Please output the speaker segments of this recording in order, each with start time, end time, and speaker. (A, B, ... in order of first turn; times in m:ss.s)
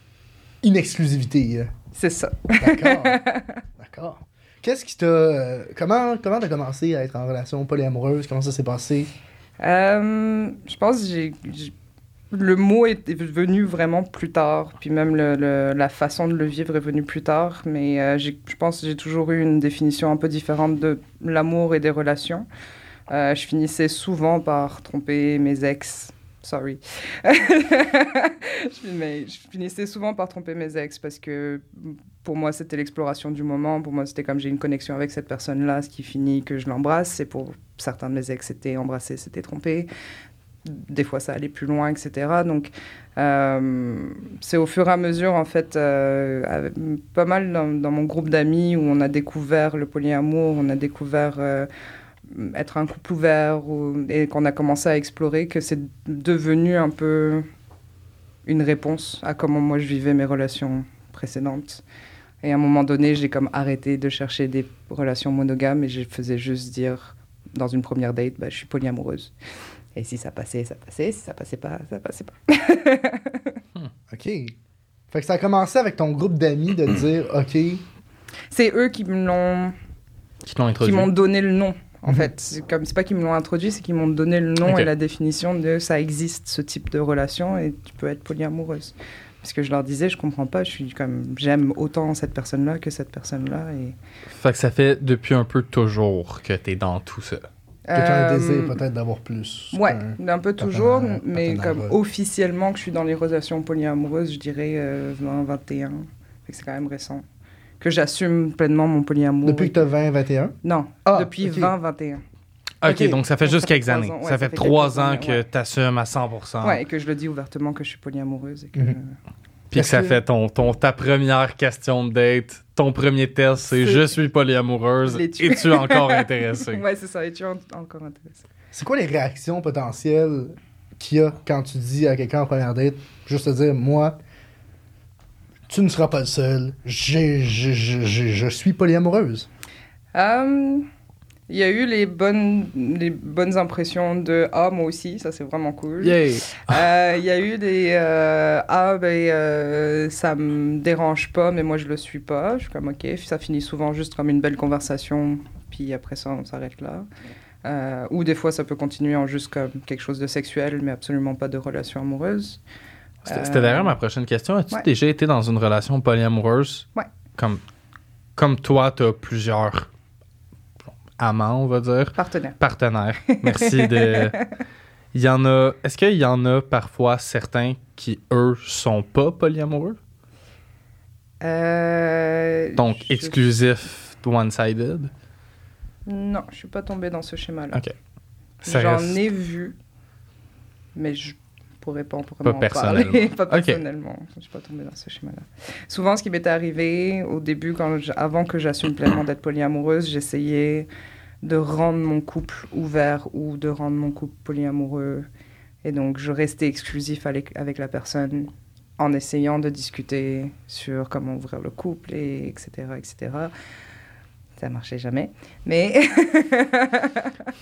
0:00.6-0:01.7 A
0:02.0-0:03.6 B
0:02.6-0:03.2 A
0:03.8-0:09.1 A
0:09.6-0:11.7 B
0:12.3-0:22.5 B
0:23.1-0:39.9 B
0:40.6-0:51.7 B
0:52.3-0:57.5 B
0:58.5-1:01.8 B
1:02.4-1:09.3 B
1:10.0-1:13.6 B
1:14.1-1:14.6 A
1:15.1-1:17.8 A
1:18.5-1:19.8 B
1:20.4-1:21.1 C
1:20.8-1:34.0 B
1:24.6-1:24.9 C
1:34.4-1:37.5 C
1:37.9-1:38.8 B
1:37.9-1:42.0 A
1:39.7-1:47.2 B
1:47.8-1:49.8 B
1:49.4-1:51.7 A
1:50.6-1:52.2 B
1:52.8-1:56.8 C
1:52.8-1:53.2 A
1:53.4-1:55.4 B
1:56.6-1:59.2 B
1:59.7-2:06.8 C
1:59.7-2:00.2 A
2:03.7-2:04.2 B
2:05.0-2:08.4 B
2:08.7-2:14.2 A
2:15.7-2:19.5 A
2:20.1-2:20.9 B
2:21.5-2:37.1 B
2:26.0-2:26.9 C
2:37.6-2:42.6 B
2:43.3-2:44.0 B
2:43.3-2:47.6 C
2:48.4-2:49.9 C
2:51.2-2:54.4 C
2:52.2-2:52.6 B
2:53.3-2:54.5 B
2:55.1-3:00.0 C
3:01.4-3:03.4 B
3:02.8-3:05.1 C
3:06.1-3:07.8 B
3:08.6-3:09.8 B
3:08.7-3:09.2 C
3:11.0-3:20.9 B
3:12.4-3:13.8 C
3:21.4-3:25.3 B
3:25.8-3:33.5 B
3:34.6-3:37.5 B